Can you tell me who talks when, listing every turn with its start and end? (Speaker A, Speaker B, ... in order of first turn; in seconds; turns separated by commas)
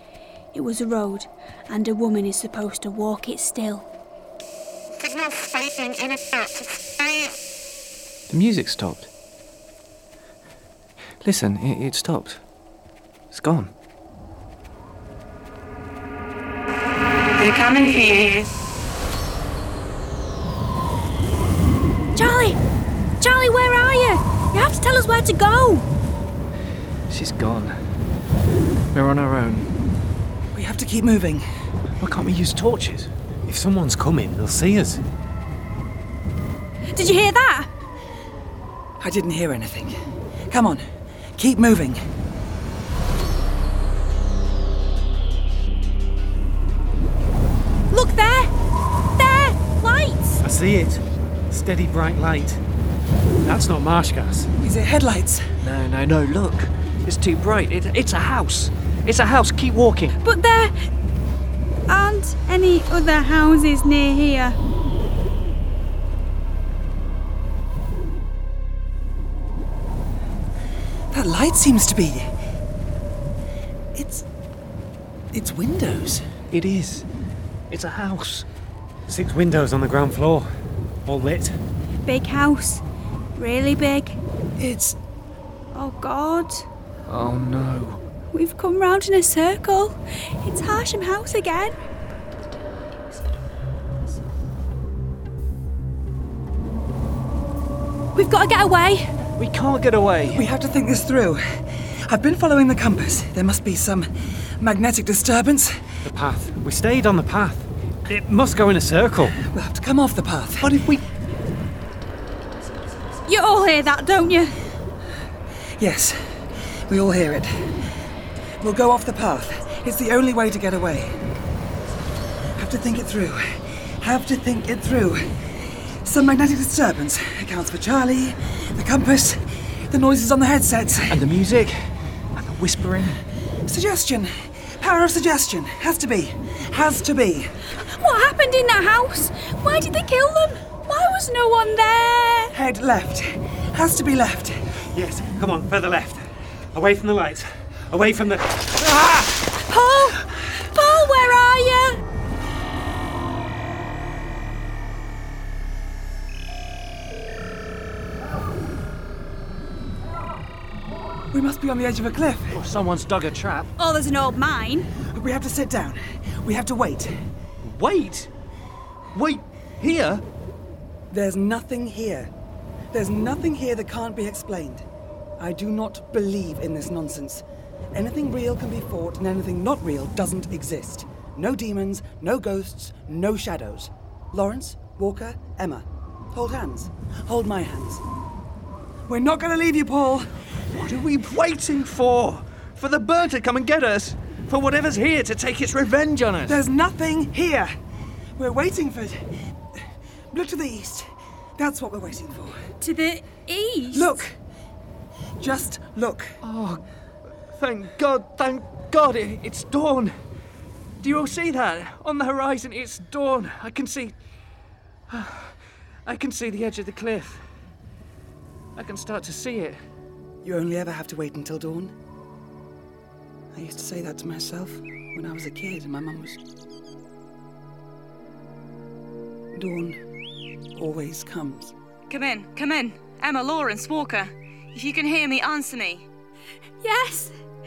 Speaker A: 0.5-3.9, Speaker B: 5.1-6.5, Speaker C: 8.3-9.1, Speaker C: 11.2-12.4, Speaker C: 13.3-13.7, Speaker B: 17.3-18.5, Speaker A: 22.1-22.6, Speaker A: 23.2-25.9, Speaker C: 27.1-27.8, Speaker C: 28.9-29.8, Speaker D: 30.5-31.4, Speaker C: 32.0-33.1, Speaker E: 33.5-35.0, Speaker A: 36.9-37.7, Speaker D: 39.0-40.0, Speaker D: 40.5-40.8, Speaker D: 41.4-42.0, Speaker A: 47.9-48.5, Speaker A: 49.2-50.4, Speaker E: 50.4-52.6, Speaker E: 53.4-54.5, Speaker D: 54.6-55.4, Speaker C: 55.6-60.2, Speaker A: 60.2-60.9, Speaker A: 61.9-64.6, Speaker D: 71.1-72.3, Speaker D: 74.0-74.2, Speaker D: 75.3-76.2, Speaker C: 76.5-77.1, Speaker C: 77.7-78.5, Speaker E: 79.1-80.5, Speaker E: 81.0-81.6, Speaker A: 82.0-82.8, Speaker A: 83.3-84.2, Speaker C: 84.6-85.0, Speaker A: 85.7-86.7, Speaker C: 87.1-88.0, Speaker A: 88.3-91.7, Speaker A: 98.1-99.1, Speaker C: 99.3-100.4, Speaker D: 100.3-104.1, Speaker D: 104.6-105.9, Speaker E: 106.0-109.4, Speaker D: 109.5-110.7, Speaker C: 110.6-111.0, Speaker A: 113.2-114.5, Speaker D: 115.8-116.4, Speaker D: 116.9-117.7, Speaker D: 118.6-121.1, Speaker D: 122.6-131.2, Speaker C: 131.1-133.2, Speaker D: 133.7-137.5, Speaker A: 137.8-142.5, Speaker D: 142.5-144.7, Speaker E: 144.9-149.5, Speaker A: 149.7-152.0, Speaker D: 161.3-162.6, Speaker C: 162.5-163.7, Speaker A: 163.8-164.9, Speaker D: 165.1-167.1, Speaker C: 167.6-168.3, Speaker C: 169.1-170.2, Speaker D: 171.1-172.3, Speaker D: 172.9-174.8, Speaker D: 175.4-177.4, Speaker D: 177.9-188.0, Speaker D: 189.1-190.4, Speaker C: 190.7-196.6, Speaker D: 196.5-197.7, Speaker D: 198.4-199.8, Speaker D: 200.3-201.1, Speaker D: 201.6-202.6, Speaker A: 202.8-204.2, Speaker D: 203.9-204.3, Speaker D: 205.4-206.4, Speaker C: 206.4-206.8, Speaker C: 207.5-210.1, Speaker C: 211.0-214.2, Speaker C: 215.1-217.4, Speaker C: 218.7-219.8, Speaker D: 220.4-221.9, Speaker D: 223.5-226.4, Speaker D: 229.5-230.0, Speaker D: 230.8-231.7, Speaker B: 232.1-236.1, Speaker A: 236.8-237.3